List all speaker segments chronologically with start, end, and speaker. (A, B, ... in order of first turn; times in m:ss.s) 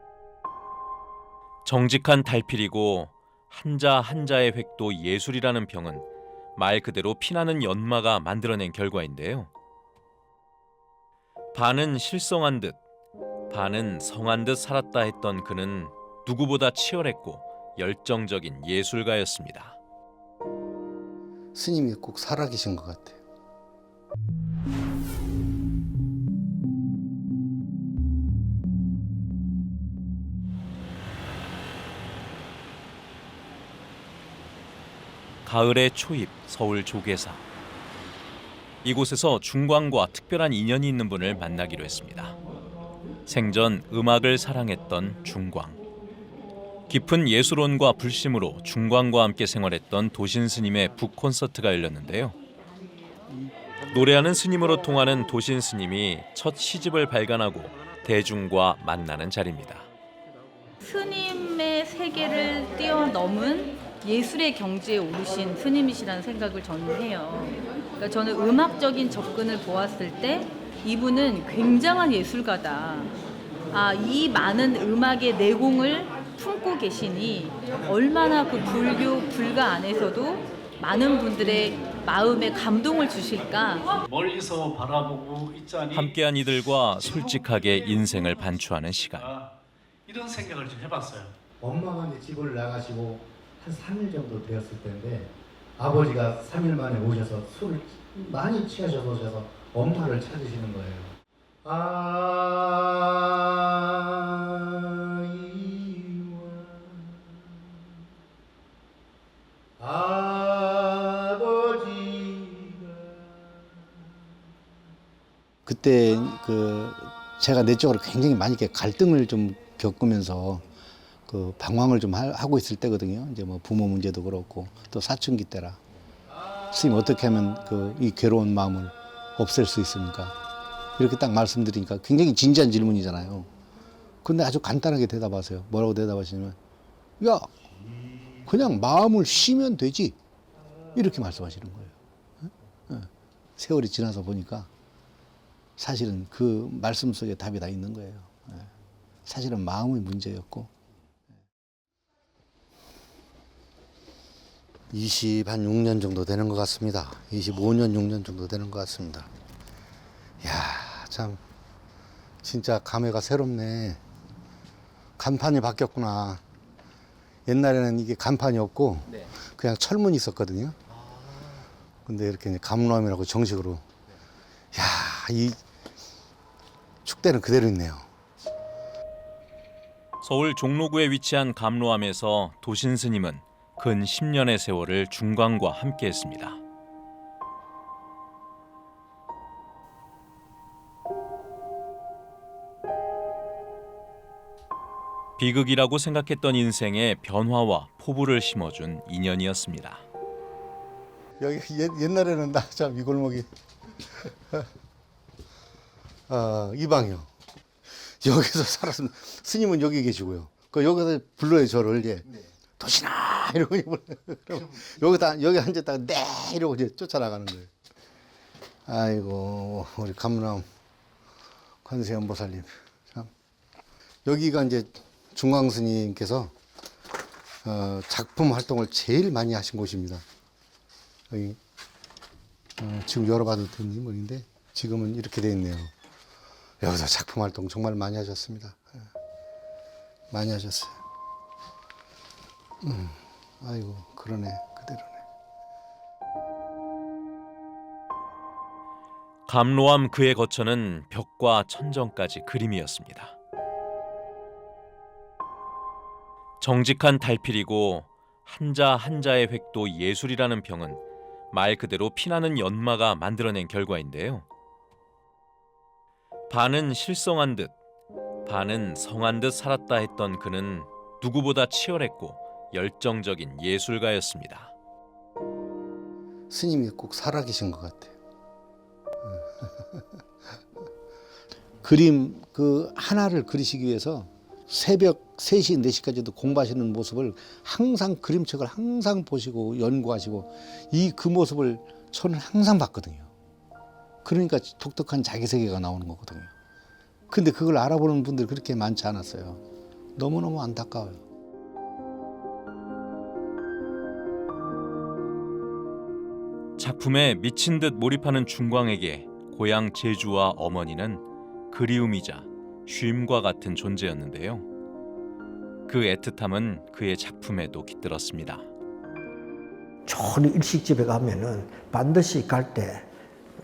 0:01.6-0:09.5 A
0:11.5-0:12.8 A
0:13.5-0:19.8 A
0:21.5-0:23.2 B
0:35.4-0:37.4 A
0:38.8-0:42.4 A
0:43.2-0:45.8 A
0:46.9-0:52.4 A
0:53.9-0:59.9 A
1:00.8-1:13.1 C
1:13.7-1:24.0 C
1:24.0-1:26.1 D
1:25.9-1:29.3 A
1:29.0-1:29.5 D
1:30.1-1:31.3 D
1:31.6-1:47.4 B
1:49.8-1:53.4 B
1:55.6-2:00.6 B
2:01.3-2:05.8 B
2:06.7-2:10.4 B
2:11.0-2:13.5 B
2:14.2-2:16.6 B
2:17.2-2:17.5 B
2:18.4-2:20.2 B
2:20.9-2:24.7 B
2:25.8-2:28.7 B
2:29.2-2:30.7 B
2:34.9-2:39.3 B
2:40.4-2:41.4 B
2:42.4-2:44.0 B
2:45.2-2:46.4 B
2:47.4-2:50.8 B
2:52.0-2:53.8 B
2:54.7-2:55.6 B
2:57.0-2:58.1 B
3:00.2-3:06.6 A
3:15.4-3:20.0 A
3:21.4-3:23.5 B
3:24.2-3:24.6 B
3:26.3-3:27.3 B
3:27.9-3:37.7 B
3:38.8-3:40.7 B
3:41.8-3:43.3 B
3:44.2-3:46.5 B
3:47.6-3:50.2 B
3:51.3-3:51.6 B
3:52.8-3:55.9 B
3:56.8-3:59.0 B
4:00.3-4:01.0 B
4:02.8-4:05.2 B
4:09.5-4:13.3 A
4:16.6-4:21.0 A
4:21.5-4:24.4 A
4:26.5-4:27.7 A
4:28.4-4:34.7 A
4:36.5-4:38.1 B
4:39.3-4:40.0 B
4:41.8-4:53.3 B
4:54.2-4:56.5 B
4:57.3-4:59.6 B
5:00.2-5:01.2 B
5:06.8-5:14.6 A
5:15.9-5:18.6 A
5:20.0-5:23.1 E